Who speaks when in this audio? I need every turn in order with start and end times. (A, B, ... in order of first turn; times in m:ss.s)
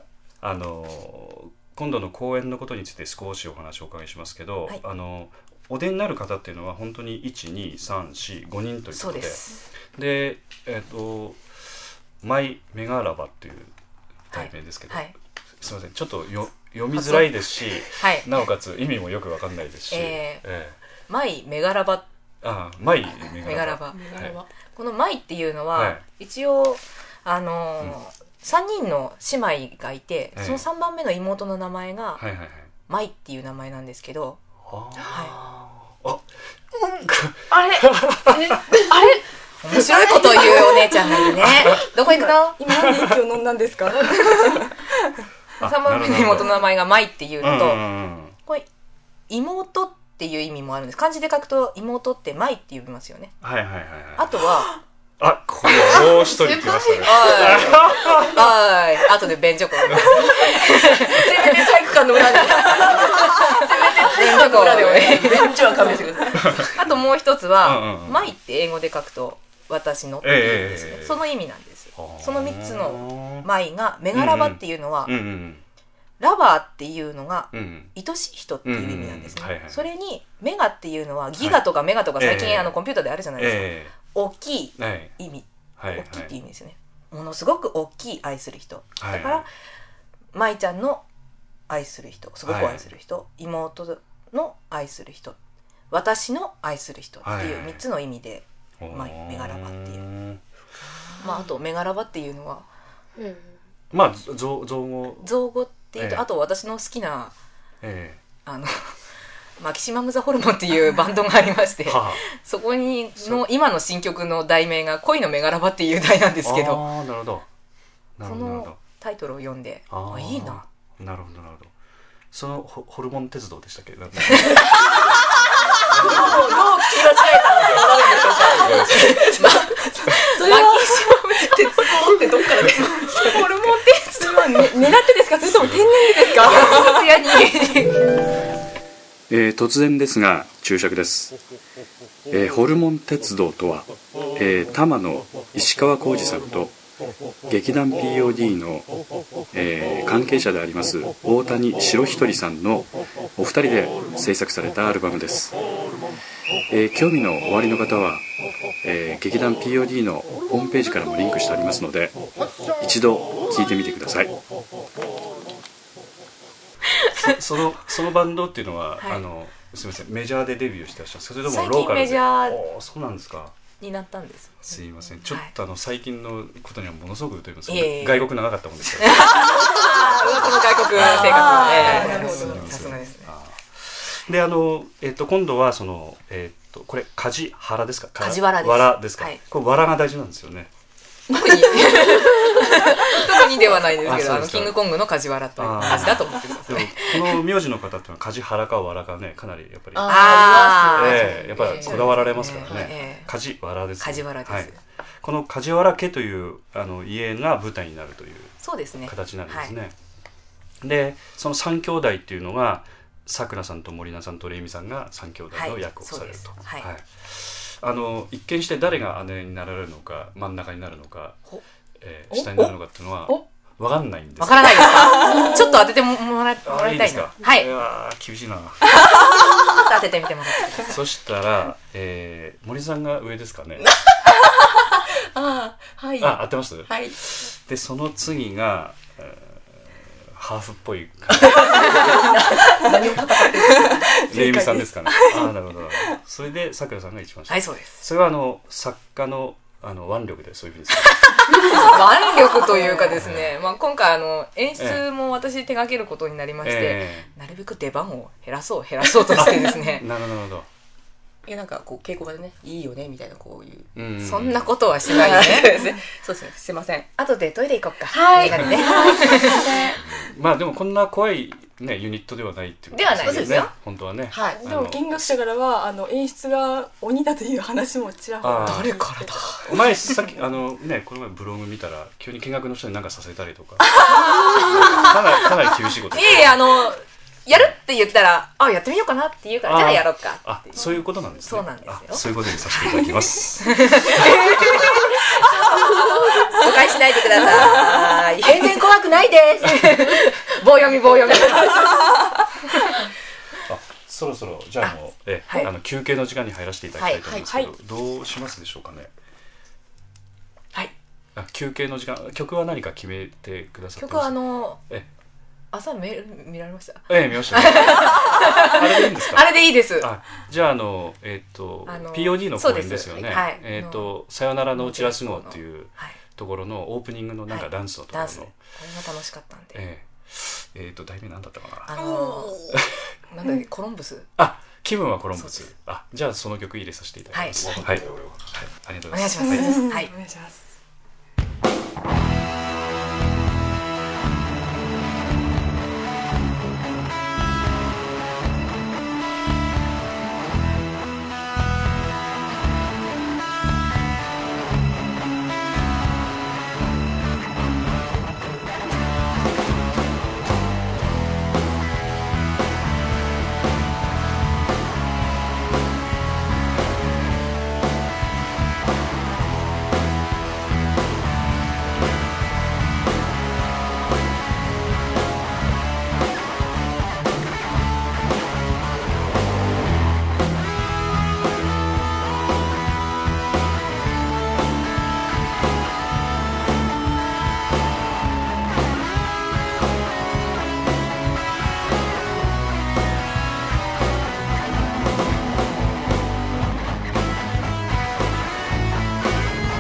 0:00.4-0:09.4 A
0:08.9-0:09.6 B
0:09.9-0:11.4 A
0:12.2-0:13.7 A
0:14.3-0:20.8 A
0:14.3-0:15.1 B
0:16.9-0:17.3 B
0:17.9-0:18.3 B
0:19.9-0:20.4 B
0:21.1-0:22.0 B
0:22.4-0:24.4 A
0:23.2-0:24.0 B
0:23.9-0:24.5 C
0:24.7-0:32.2 B
0:25.7-0:26.0 A
0:30.4-0:30.6 A
0:32.2-0:32.7 A
0:32.9-0:34.4 B
0:34.6-0:38.7 A
0:35.1-0:35.3 B
0:37.5-0:37.8 C
0:38.4-0:39.2 C
0:39.6-0:42.6 B
0:39.8-0:40.8 C
0:41.1-0:42.0 A
0:42.5-0:45.1 D
0:42.7-0:43.1 A
0:45.6-0:46.6 A
0:45.6-0:47.9 B
0:47.4-0:48.4 A
0:49.3-0:53.4 B
0:53.4-0:54.6 A
0:54.2-0:54.8 B
0:55.2-0:58.5 A
0:55.8-0:58.3 E
0:57.0-1:05.9 B
0:59.9-1:00.3 A
1:00.2-1:06.7 C
1:06.4-1:06.8 A
1:06.5-1:15.2 B
1:07.6-1:08.3 A
1:10.2-1:11.2 A
1:12.0-1:13.5 A
1:14.1-1:15.6 A
1:16.2-1:29.5 B
1:17.5-1:17.9 A
1:18.6-1:19.8 A
1:22.2-1:22.8 A
1:23.4-1:23.9 A
1:24.8-1:25.1 A
1:25.8-1:26.3 A
1:29.0-1:29.4 A
1:30.3-1:31.0 B
1:31.7-1:35.4 B
1:32.4-1:32.9 A
1:35.9-1:40.0 B
1:37.2-1:37.8 A
1:38.8-1:40.4 A
1:41.1-1:42.6 B
1:43.2-1:43.5 E
1:43.9-1:45.3 A
1:45.2-1:47.3 B
1:46.0-1:46.2 A
1:47.8-1:48.2 A
1:48.4-1:49.0 B
1:49.6-1:56.8 B
1:51.8-1:52.2 A
1:53.2-1:53.4 A
1:56.4-1:57.5 A
1:58.2-1:58.8 A
1:58.2-2:00.6 B
1:59.9-2:01.7 A
2:02.3-2:05.0 A
2:04.2-2:04.7 B
2:04.6-2:04.8 C
2:05.8-2:09.7 C
2:05.9-2:06.4 A
2:06.0-2:06.5 B
2:07.1-2:12.0 B
2:08.5-2:09.3 A
2:10.3-2:13.5 C
2:10.4-2:11.2 D
2:13.1-2:17.2 D
2:13.1-2:14.6 B
2:15.4-2:15.9 A
2:16.2-2:16.8 C
2:16.4-2:18.1 B
2:16.4-2:16.8 A
2:19.3-2:21.4 A
2:22.3-2:26.8 A
2:27.5-2:29.0 A
2:29.5-2:35.6 A
2:36.7-2:38.3 A
2:38.8-2:44.4 A
2:47.1-2:53.6 A
2:51.4-2:52.6 B
2:53.8-2:55.5 B
2:54.6-3:10.7 A
2:57.7-2:58.3 B
2:59.0-3:03.3 B
3:00.9-3:03.0 D
3:08.2-3:09.4 B
3:11.3-3:17.4 B
3:11.3-3:12.8 C
3:13.3-3:13.6 C
3:13.9-3:14.8 A
3:15.6-3:29.9 A
3:19.9-3:23.1 C
3:20.0-3:23.3 B
3:24.0-3:24.8 B
3:28.6-3:29.7 B
3:30.8-3:41.4 A
3:35.5-3:36.9 B
3:42.0-3:45.2 A
3:42.3-3:42.7 B
3:44.4-3:47.7 B
3:46.6-3:49.0 A
3:49.2-3:50.9 B
3:50.8-3:53.9 A
3:53.9-3:57.2 C
3:56.2-4:02.5 A
4:01.4-4:04.2 C
4:03.7-4:06.1 D
4:04.2-4:12.0 A
4:07.5-4:08.0 B
4:11.0-4:20.1 B
4:12.6-4:13.3 C
4:13.1-4:13.6 A
4:14.8-4:15.0 A
4:16.6-4:17.3 A
4:19.3-4:20.7 A
4:21.4-4:23.9 C
4:23.9-4:25.0 A
4:24.2-4:25.9 B
4:25.1-4:27.1 C
4:27.2-4:29.8 B
4:28.1-4:30.0 C
4:28.4-4:29.0 A
4:29.9-4:35.3 A
4:32.9-4:33.7 B
4:33.2-4:33.6 C
4:34.3-4:34.6 C
4:34.5-4:40.2 D
4:38.4-4:39.0 A
4:38.6-4:39.7 B
4:39.6-4:46.7 A
4:44.0-4:45.2 B
4:46.1-4:59.0 B
4:49.6-4:54.4 A
4:54.1-5:00.2 C
4:59.6-5:03.1 B
5:01.4-5:01.8 C
5:03.6-5:09.1 A
5:07.0-5:07.7 B
5:07.1-5:07.5 C
5:11.3-5:14.4 A
5:14.0-5:14.8 B
5:15.7-5:20.1 B
5:17.1-5:28.6 A
5:21.8-5:24.2 B
5:24.7-5:26.2 B
5:27.5-5:29.8 B
5:29.7-5:33.1 A
5:31.9-5:34.3 B
5:34.4-5:39.8 A
5:35.4-5:35.6 B
5:37.3-5:37.9 B
5:39.1-5:40.1 B
5:39.4-5:40.7 D